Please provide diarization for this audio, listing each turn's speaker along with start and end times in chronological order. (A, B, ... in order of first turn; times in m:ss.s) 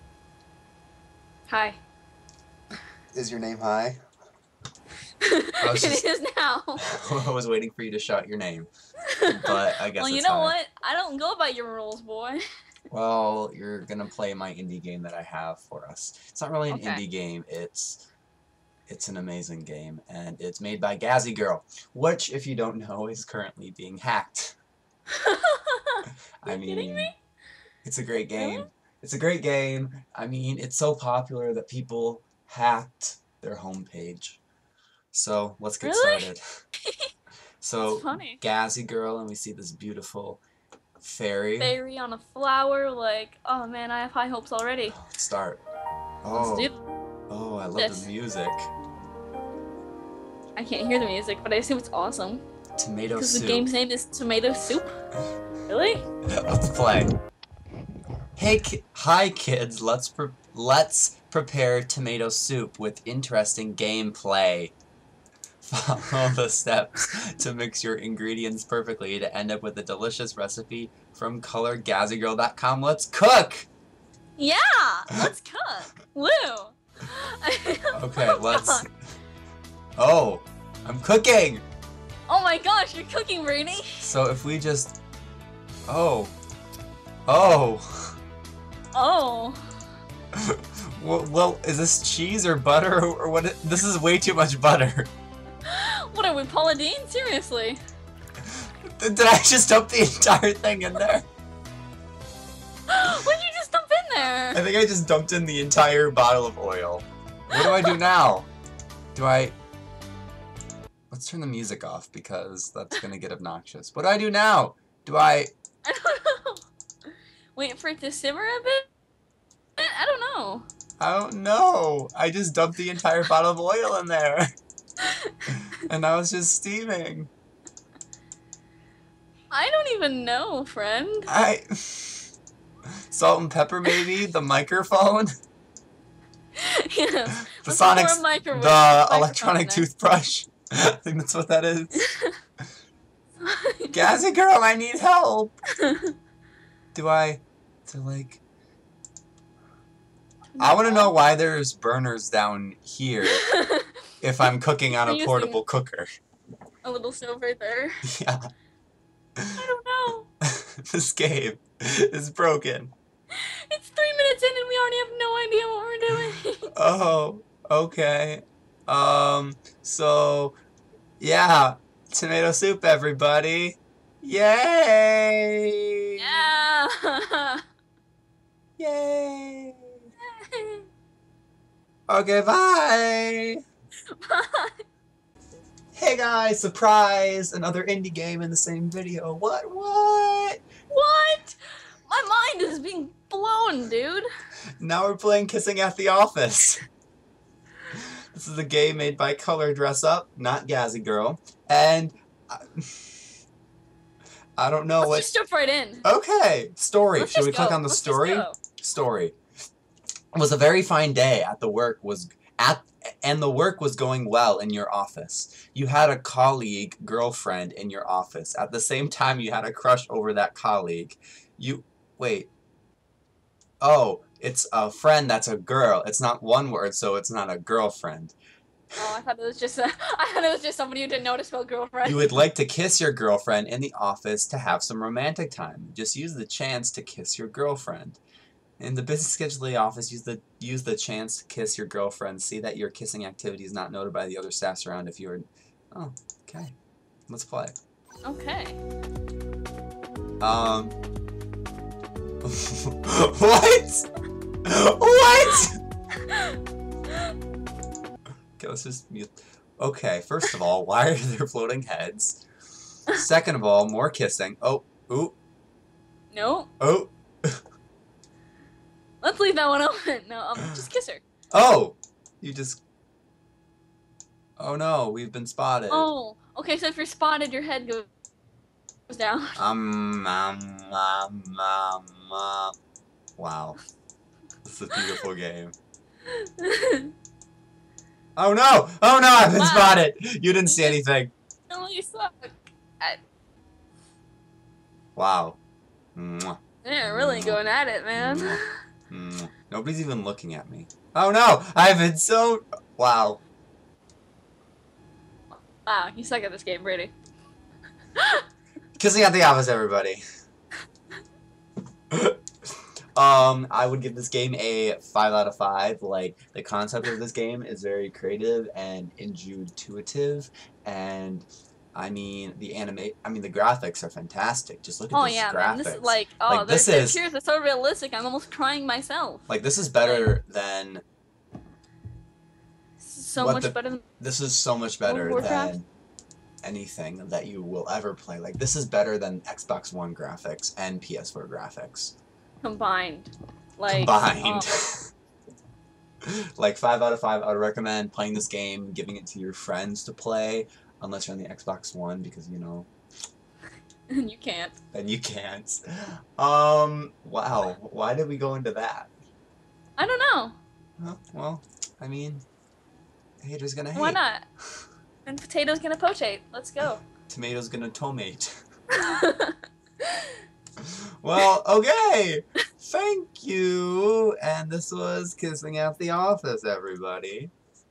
0:01.5-0:01.8 A
0:03.1-0:04.0 B
0:05.2-0:06.8 A
0:05.6-0:06.0 B
0:06.8-0:08.7 B
0:09.1-0:12.4 A
0:09.3-0:10.5 B
0:12.9-0:18.0 B
0:16.7-0:17.0 A
0:18.9-0:24.6 B
0:25.1-0:27.2 A
0:26.4-0:27.1 B
0:27.8-0:34.4 B
0:28.3-0:28.7 A
0:35.1-0:36.4 B
0:35.8-0:36.3 A
0:36.8-0:37.1 A
0:37.6-0:40.4 B
0:37.8-0:38.4 A
0:41.0-0:41.8 B
0:41.6-0:44.9 A
0:44.9-0:45.6 B
0:46.2-0:46.7 B
0:46.3-0:46.8 A
0:47.3-0:48.7 B
0:47.8-0:48.1 A
0:50.6-0:52.4 A
0:52.8-0:53.7 B
0:53.2-0:54.9 A
0:55.7-0:56.0 A
0:56.3-0:57.1 B
0:58.4-1:04.7 B
1:05.6-1:13.7 B
1:14.4-1:18.9 A
1:17.9-1:18.9 B
1:20.0-1:21.6 B
1:22.3-1:24.0 A
1:24.0-1:25.0 B
1:25.9-1:26.3 B
1:27.3-1:27.9 B
1:28.9-1:29.6 A
1:30.4-1:35.1 B
1:35.6-1:37.8 A
1:38.4-1:41.2 B
1:42.9-1:44.6 A
1:44.5-1:48.5 B
1:47.5-1:48.0 A
1:49.1-1:49.6 B
1:51.1-1:55.5 B
1:55.8-1:56.6 A
1:57.6-1:58.9 A
1:59.8-2:00.7 A
2:01.0-2:04.5 B
2:05.0-2:05.4 A
2:05.8-2:07.3 B
2:09.5-2:11.3 A
2:11.3-2:12.2 B
2:13.1-2:15.3 B
2:16.6-2:19.9 A
2:17.5-2:22.1 B
2:22.0-2:22.3 A
2:23.4-2:24.1 A
2:23.9-2:25.6 B
2:25.8-2:26.1 A
2:26.9-2:28.4 B
2:30.5-2:31.1 A
2:30.6-2:33.4 B
2:33.3-2:33.9 A
2:34.2-2:36.1 B
2:34.9-2:35.6 A
2:36.8-2:38.0 A
2:38.0-2:38.4 B
2:39.6-2:40.3 A
2:40.5-2:42.9 B
2:43.3-2:46.7 A
2:46.8-2:50.6 B
2:51.2-2:56.5 B
2:56.2-2:57.6 A
2:58.8-2:59.9 B
3:00.2-3:00.9 A
3:02.1-3:03.6 B
3:04.2-3:04.8 A
3:05.9-3:10.6 B
3:10.9-3:14.2 A
3:14.8-3:16.8 B
3:18.3-3:23.1 B
3:24.6-3:25.3 B
3:25.0-3:26.0 A
3:26.0-3:29.4 B
3:27.2-3:28.6 A
3:30.3-3:42.5 B
3:43.8-3:48.3 B
3:49.0-3:52.4 A
3:52.0-3:58.2 B
3:58.8-4:06.7 B
4:07.3-4:07.8 B
4:08.2-4:08.8 A
4:10.4-4:11.0 B
4:12.4-4:14.1 B
4:14.6-4:15.8 B
4:16.2-4:16.6 A
4:18.6-4:22.4 B
4:23.1-4:25.4 B
4:26.3-4:26.7 A
4:26.8-4:27.6 B
4:29.2-4:31.2 A
4:31.5-4:32.8 B
4:34.6-4:36.1 B
4:35.9-4:38.1 A
4:39.1-4:39.6 A
4:39.6-4:42.7 B
4:43.4-4:43.8 B
4:44.6-4:45.8 B
4:46.3-4:47.1 A
4:48.4-4:51.3 B
4:49.5-4:50.0 A
4:50.6-4:51.0 A
4:51.7-4:53.2 A
4:55.2-4:55.6 B
4:56.2-4:57.6 B
4:56.8-4:58.6 A
4:58.1-5:03.4 B
5:05.8-5:07.1 A
5:08.2-5:08.4 A
5:09.0-5:10.2 B
5:12.1-5:12.4 B
5:13.2-5:27.2 B
5:25.1-5:29.5 A
5:29.5-5:31.0 B
5:30.0-5:30.3 A
5:33.0-5:34.0 A
5:33.4-5:35.9 B
5:35.0-5:35.8 A
5:36.6-5:42.1 B
5:42.6-5:44.7 A
5:43.9-5:44.9 B
5:46.2-5:52.9 B
5:54.1-5:54.7 A
5:54.9-5:59.1 B
6:00.0-6:00.6 A
6:01.0-6:02.4 B
6:03.4-6:04.2 B
6:03.9-6:04.4 A
6:05.2-6:07.0 A
6:07.3-6:08.5 B
6:08.9-6:10.4 A
6:11.2-6:17.5 B